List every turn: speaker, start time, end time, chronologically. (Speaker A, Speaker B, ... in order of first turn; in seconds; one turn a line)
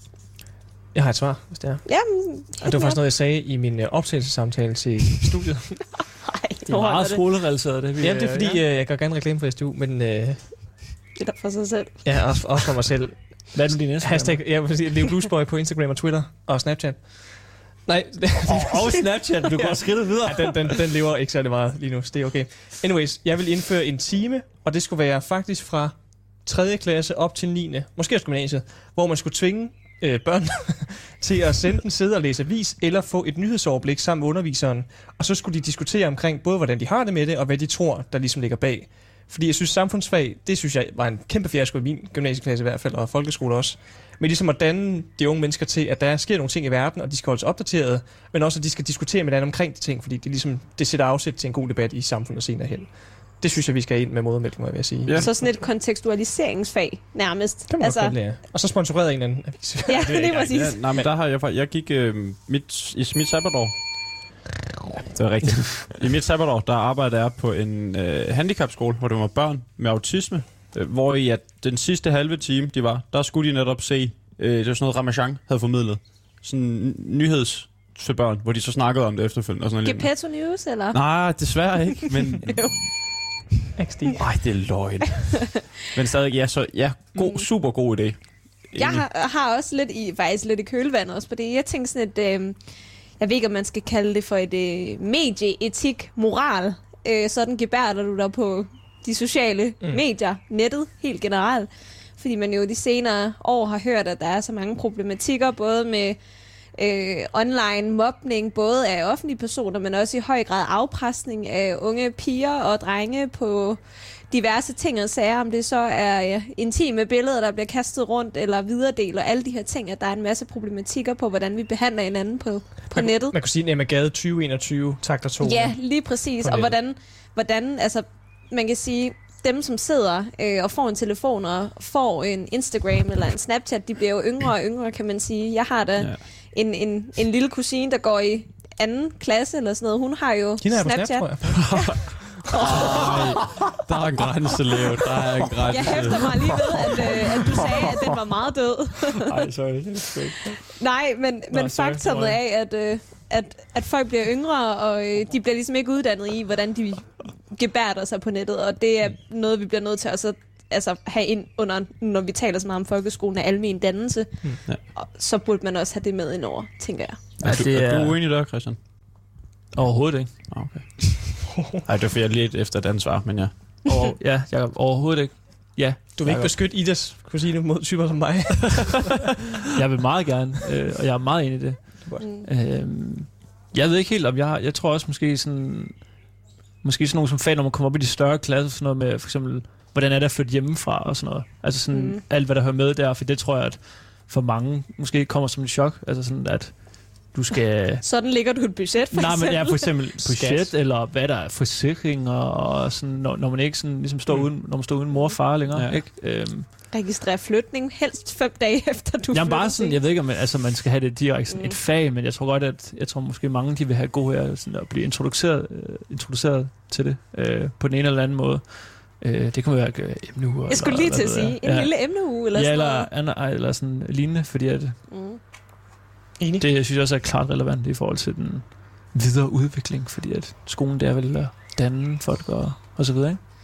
Speaker A: 0.9-1.8
Speaker B: 1.9-3.0
Speaker A: 2.6-5.8
Speaker B: 6.2-7.2
Speaker C: 6.7-8.6
Speaker A: 8.0-10.4
Speaker B: 11.2-12.0
Speaker A: 12.0-17.0
Speaker C: 13.5-14.4
Speaker A: 17.9-52.9
Speaker C: 18.5-20.8
Speaker A: 53.4-55.3
Speaker B: 55.2-58.1
Speaker A: 57.7-61.1
Speaker B: 59.9-60.8
Speaker D: 60.2-63.7
Speaker D: 65.1-80.1
Speaker B: 79.8-81.0
Speaker D: 80.9-82.8
Speaker B: 82.4-82.7
Speaker A: 83.8-84.2
Speaker D: 84.1-88.2
Speaker D: 88.7-89.0
Speaker B: 88.8-92.5
Speaker B: 93.2-106.2
Speaker B: 106.8-113.8
Speaker B: 114.3-123.3
Speaker A: 122.9-125.8
Speaker B: 125.4-143.3
Speaker A: 126.4-126.7
Speaker A: 140.6-142.0
Speaker D: 141.6-146.6
Speaker B: 145.7-149.3
Speaker C: 149.2-150.6
Speaker B: 150.7-164.3
Speaker C: 151.5-152.4
Speaker B: 164.9-167.2
Speaker D: 167.4-168.8
Speaker C: 167.4-168.2
Speaker C: 169.7-170.3
Speaker D: 170.5-171.2
Speaker D: 171.8-173.5
Speaker C: 173.9-176.5
Speaker A: 176.2-179.1
Speaker C: 179.7-186.0
Speaker C: 186.8-198.0
Speaker B: 191.9-192.2
Speaker B: 198.0-200.0
Speaker C: 199.1-206.7
Speaker A: 200.3-200.7
Speaker B: 206.9-210.0
Speaker C: 209.3-224.9
Speaker B: 211.5-211.8
Speaker B: 220.7-223.1
Speaker B: 225.1-225.4
Speaker A: 226.4-226.7
Speaker C: 226.6-233.4